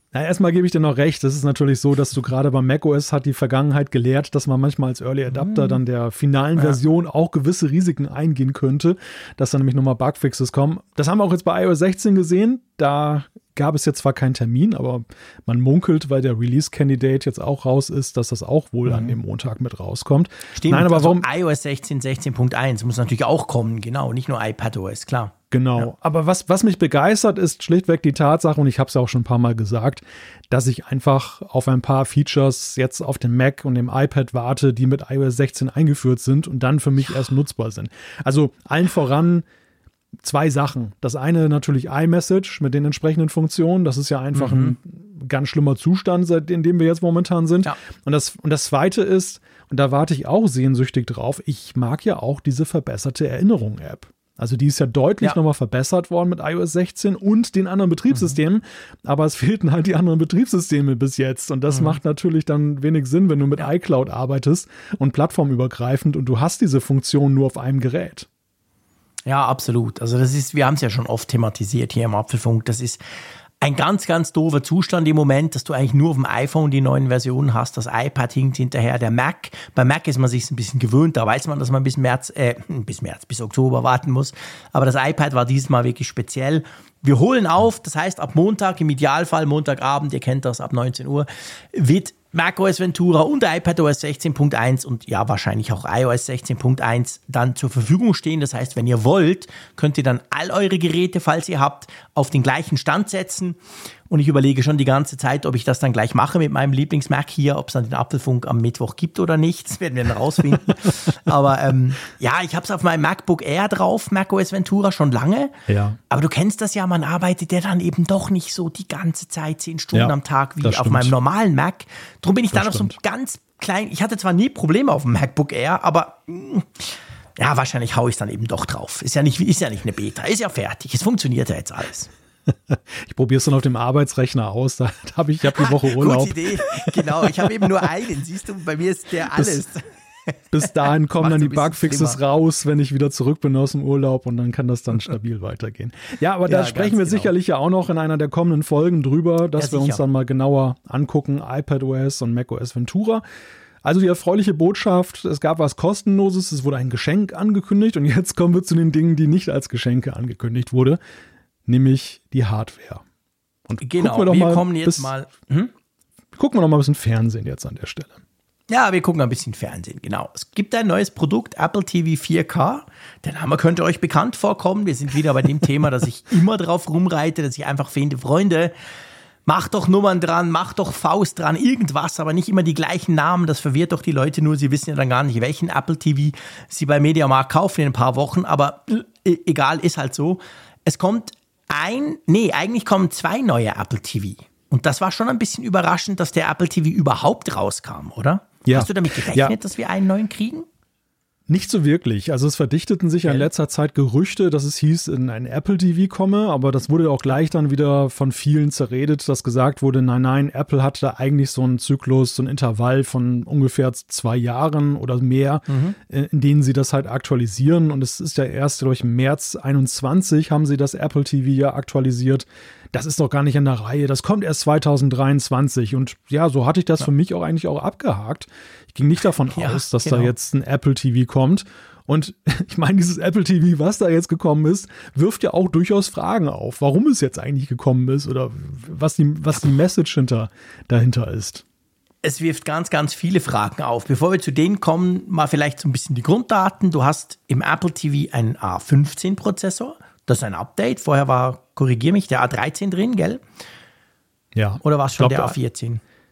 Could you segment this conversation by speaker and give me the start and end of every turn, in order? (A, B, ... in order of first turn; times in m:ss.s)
0:00.1-0:21.3 A
0:05.3-0:05.8 B
0:18.9-0:19.2 B
0:20.6-0:25.9 B
0:25.5-0:39.5 A
0:40.2-1:08.3 A
0:44.3-0:44.8 B
1:01.7-1:02.0 B
1:09.3-1:13.0 B
1:13.6-1:43.6 B
1:44.1-1:55.6 B
1:55.7-1:56.0 A
1:56.1-2:12.1 B
1:59.9-2:01.1 A
2:02.5-2:03.0 A
2:12.7-2:17.3 A
2:15.5-2:22.2 B
2:19.3-2:19.6 A
2:20.5-2:33.2 A
2:26.5-2:27.3 B
2:29.6-2:30.0 B
2:33.8-2:41.0 A
2:41.7-2:43.0 A
2:43.7-2:45.1 A
2:43.8-2:45.7 B
2:46.4-2:48.2 A
2:48.7-2:58.7 B
2:59.5-3:20.7 B
3:18.6-3:19.6 A
3:21.5-4:01.6 A
3:23.2-3:23.5 B
3:35.7-3:36.0 B
3:49.5-3:50.3 B
4:02.2-4:13.4 B
4:14.6-4:15.6 A
4:14.8-4:16.0 B